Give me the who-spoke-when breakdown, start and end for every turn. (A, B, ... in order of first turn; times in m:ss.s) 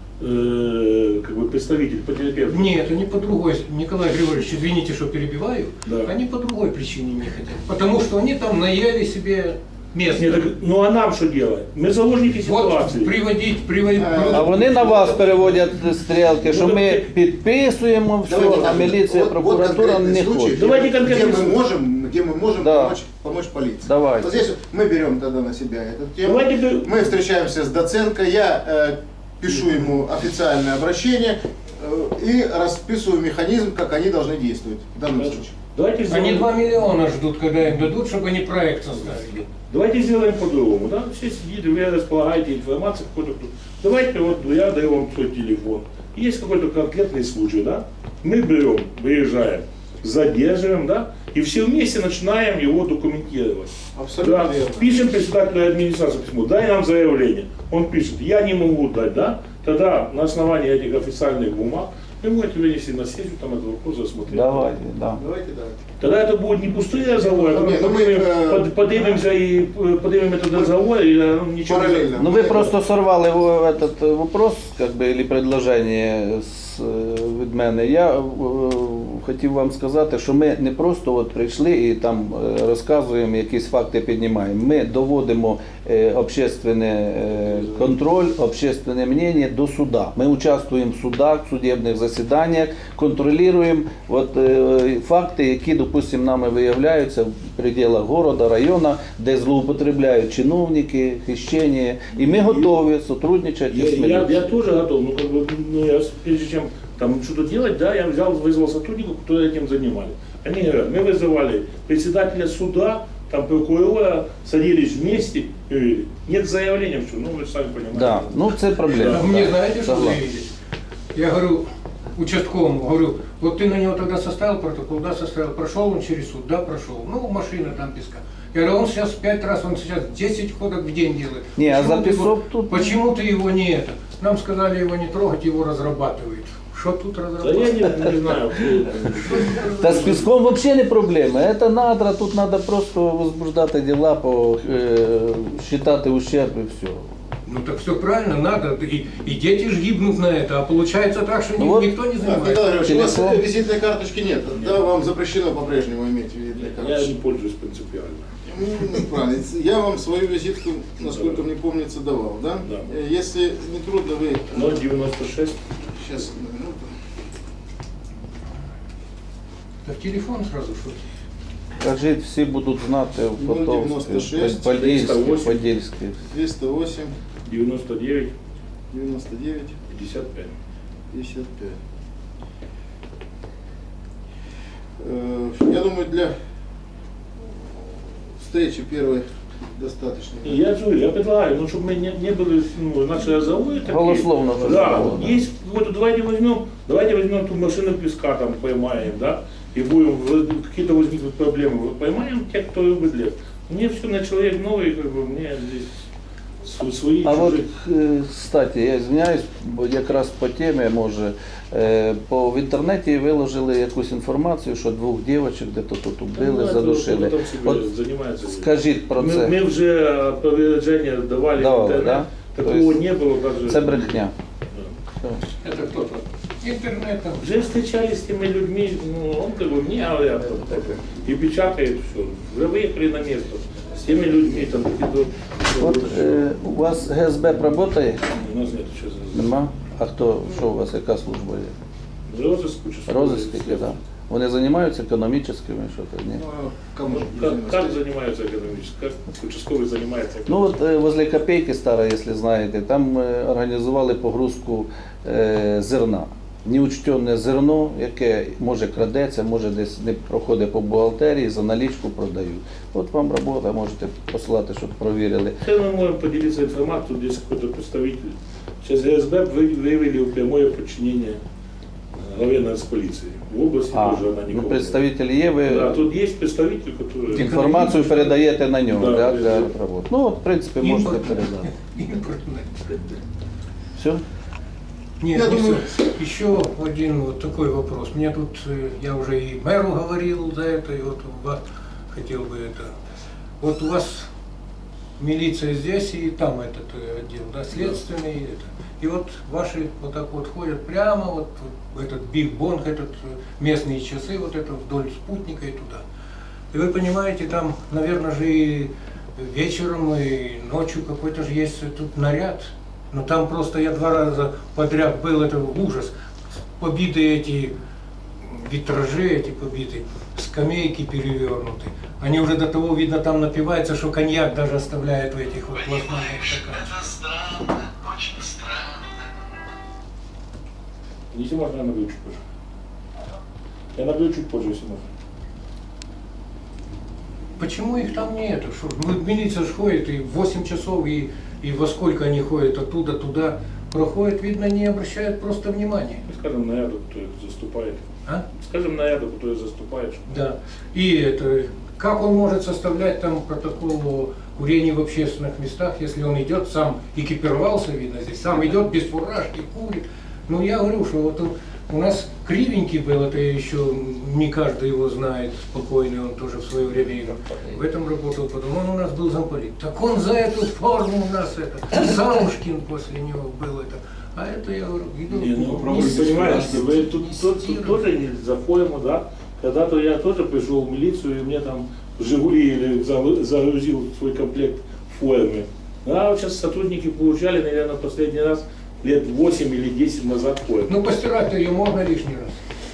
0:00.2-0:02.8 A
0:02.5-0:10.5 B
0:05.9-0:06.1 A
0:10.1-0:13.1 A
0:12.4-0:14.6 B
0:14.0-0:15.6 C
0:14.3-0:20.6 D
0:16.4-0:17.1 A
0:18.2-0:35.6 C
0:18.4-0:18.6 A
0:20.6-0:21.6 A
0:22.6-0:23.0 D
0:23.8-0:24.3 D
0:26.2-0:27.1 A
0:35.2-0:36.5 A
0:36.1-0:39.5 B
0:39.6-1:04.7 A
0:54.0-0:55.0 C
1:04.3-1:05.2 D
1:05.1-1:05.8 C
1:06.0-1:12.2 A
1:07.0-1:09.1 C
1:11.6-1:12.8 C
1:12.2-1:44.4 D
1:42.1-1:42.7 A
1:43.7-1:59.4 A
1:57.9-2:00.2 D
1:59.0-2:00.5 B
2:01.1-2:18.3 B
2:11.6-2:13.0 D
2:17.4-2:20.0 A
2:19.1-2:20.2 B
2:19.8-2:27.1 D
2:27.5-2:33.0 B
2:31.6-2:31.9 D
2:32.2-2:37.1 C
2:32.8-2:33.4 D
2:34.6-2:34.9 A
2:36.6-2:38.2 A
2:38.4-2:44.8 C
2:41.1-2:41.4 A
2:44.5-2:45.6 A
2:45.9-2:46.9 C
2:49.8-2:51.0 B
2:51.8-2:56.2 D
2:53.4-2:54.7 C
2:54.6-2:55.6 A
2:56.2-2:57.1 C
2:57.4-2:58.3 A
2:58.9-2:59.8 C
2:59.9-3:00.5 A
3:01.1-3:01.8 C
3:05.0-3:06.3 C
3:08.4-3:10.6 C
3:10.4-3:25.9 A
3:13.9-3:15.4 D
3:26.6-3:27.6 A
3:27.2-3:37.8 D
3:36.3-3:44.9 A
3:38.4-3:39.6 D
3:41.6-3:43.0 D
3:43.6-3:44.3 D
3:45.2-3:45.5 D
3:45.6-3:47.5 B
3:47.4-3:56.5 A
3:55.8-3:58.2 D
3:58.3-3:59.6 A
3:59.3-4:01.7 D
4:02.3-4:04.0 A
4:03.1-4:06.4 D
4:06.3-4:08.0 C
4:07.1-4:10.8 A
4:10.5-4:25.6 D
4:25.6-4:31.4 A
4:32.1-4:35.0 A
4:33.9-4:36.0 D
4:35.6-4:37.6 A
4:37.3-4:38.4 B
4:37.3-4:41.7 D
4:38.9-4:39.7 A
4:40.8-4:43.2 B
4:44.0-4:44.2 D
4:45.2-4:51.6 B
4:45.3-4:46.1 C
4:52.1-4:52.9 B
4:53.6-4:54.3 B
4:55.2-5:06.0 B
5:06.7-5:16.1 B
5:16.8-5:17.7 B
5:18.5-5:27.1 B
5:27.3-5:28.9 A
5:31.3-5:32.4 A
5:34.0-5:35.0 A
5:37.6-5:46.2 B
5:46.3-5:48.1 A
5:48.6-5:50.4 A
5:50.3-6:18.1 B
6:15.3-6:31.0 A
6:30.9-6:32.6 B